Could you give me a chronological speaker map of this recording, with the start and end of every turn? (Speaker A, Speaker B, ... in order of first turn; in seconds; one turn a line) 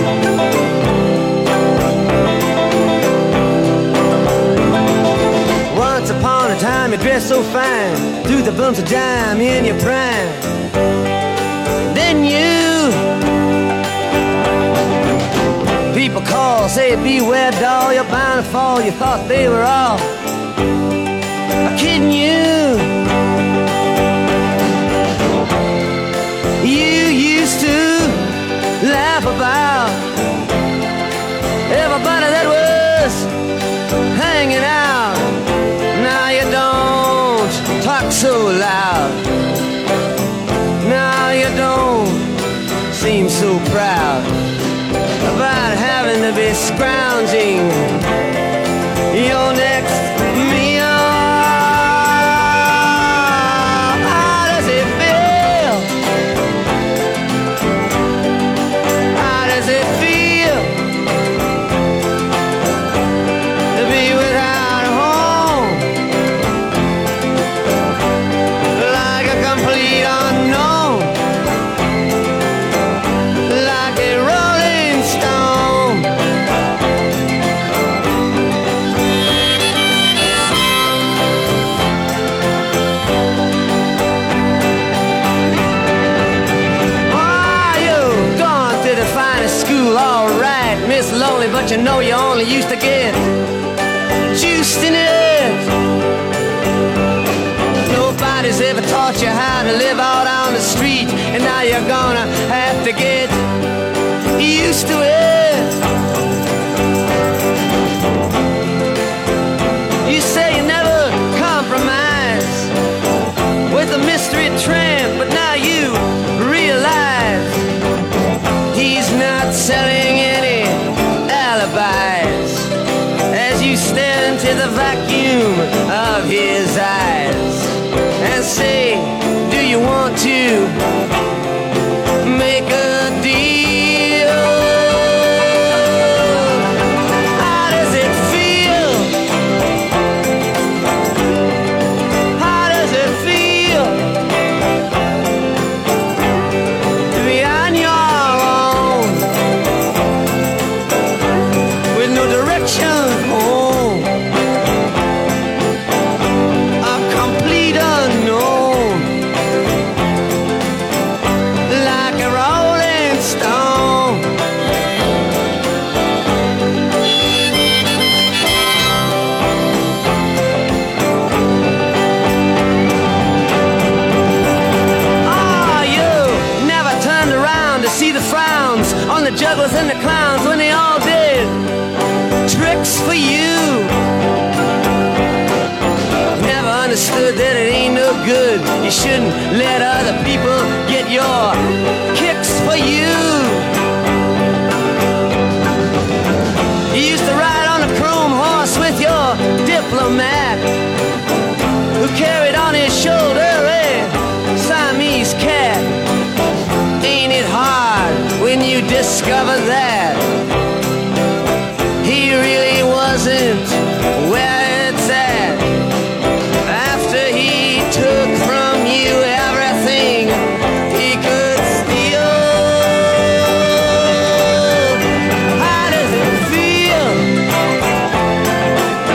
Speaker A: 5.7-10.6
Speaker A: 11.8-13.1
Speaker A: 15.9-20.1
Speaker A: 21.6-23.0
Speaker A: 26.6-30.1
Speaker A: 31.7-33.3
Speaker A: 34.1-35.4
Speaker A: 35.9-39.2
Speaker A: 40.8-42.3
Speaker A: 42.9-44.3
Speaker A: 45.2-48.0
Speaker A: 49.1-55.9
Speaker A: 59.1-60.8
Speaker A: 63.7-65.9
Speaker A: 68.7-71.2
Speaker A: 73.4-76.1
Speaker A: 87.1-93.3
Speaker A: 94.3-95.7
Speaker A: 97.8-103.4
Speaker A: 104.3-105.8
Speaker A: 110.0-112.7
Speaker A: 113.7-117.7
Speaker A: 118.7-122.7
Speaker A: 123.3-130.8
Speaker A: 132.2-136.7
Speaker A: 137.3-139.2
Speaker A: 142.3-144.1
Speaker A: 147.1-149.3
Speaker A: 151.9-154.2
Speaker A: 156.8-159.2
Speaker A: 161.7-164.3
Speaker A: 175.2-181.6
Speaker A: 182.4-183.9
Speaker A: 186.3-191.6
Speaker A: 192.1-193.7
Speaker A: 196.9-200.7
Speaker A: 201.9-206.0
Speaker A: 207.0-210.3
Speaker A: 212.0-215.8
Speaker A: 216.6-225.0
Speaker A: 225.5-227.4